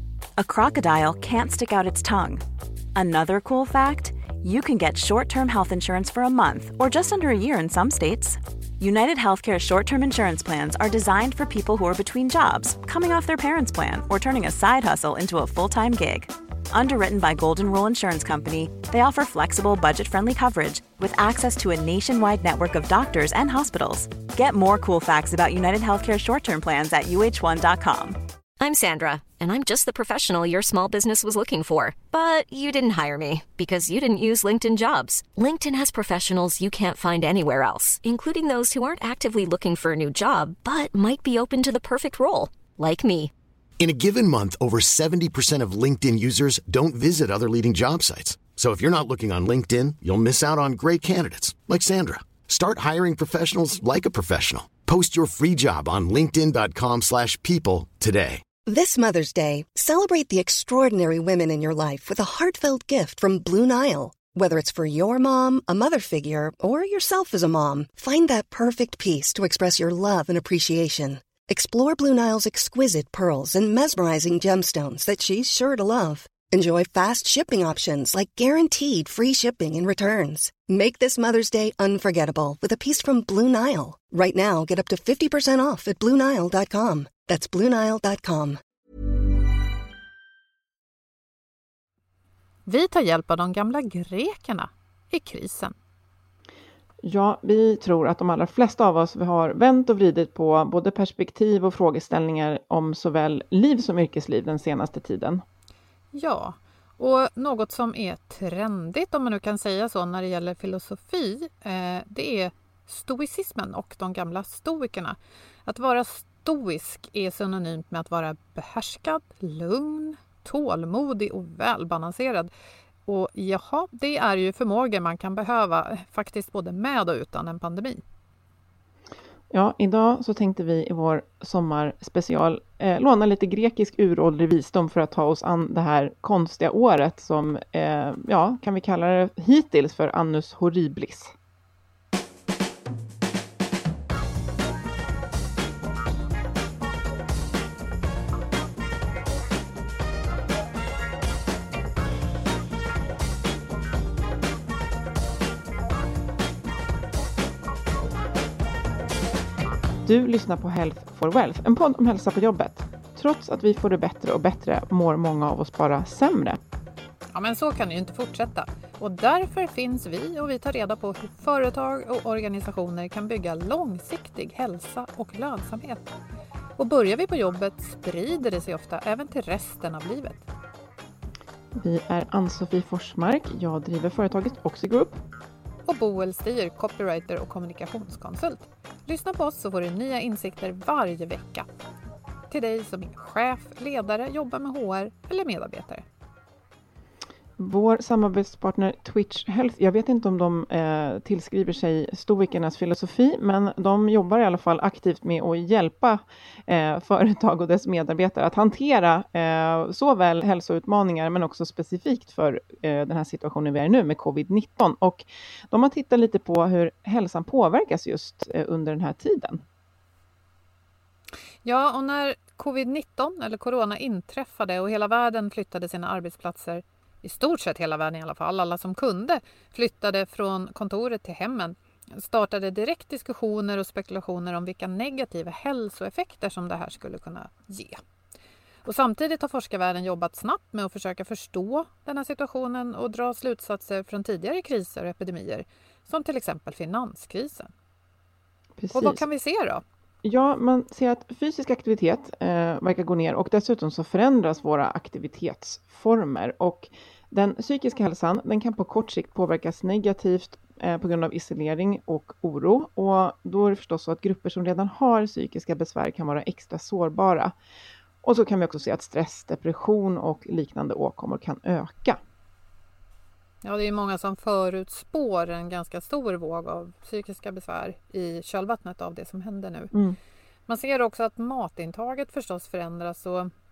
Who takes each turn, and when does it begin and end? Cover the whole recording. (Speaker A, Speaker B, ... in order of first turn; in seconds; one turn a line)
Speaker A: 0.4-2.4
Speaker A: 2.9-28.2
Speaker B: 28.6-43.3
Speaker C: 43.8-58.4
Speaker D: 58.6-88.6
Speaker E: 92.7-95.7
Speaker F: 97.0-105.4
Speaker E: 106.1-122.5
Speaker E: 123.1-128.0
Speaker F: 129.5-141.3
Speaker F: 160.0-166.6
Speaker E: 167.3-176.0
Speaker E: 176.8-180.4
Speaker F: 181.8-185.2
Speaker E: 185.8-191.7
Speaker E: 192.5-196.0
Speaker F: 197.6-219.6
Speaker E: 221.6-238.0
Speaker E: 238.8-247.7
Speaker F: 248.8-249.2
Speaker E: 248.9-249.8
Speaker F: 250.2-267.5
Speaker F: 268.2-272.2
Speaker E: 273.6-279.9
Speaker F: 279.9-280.2
Speaker E: 280.7-283.5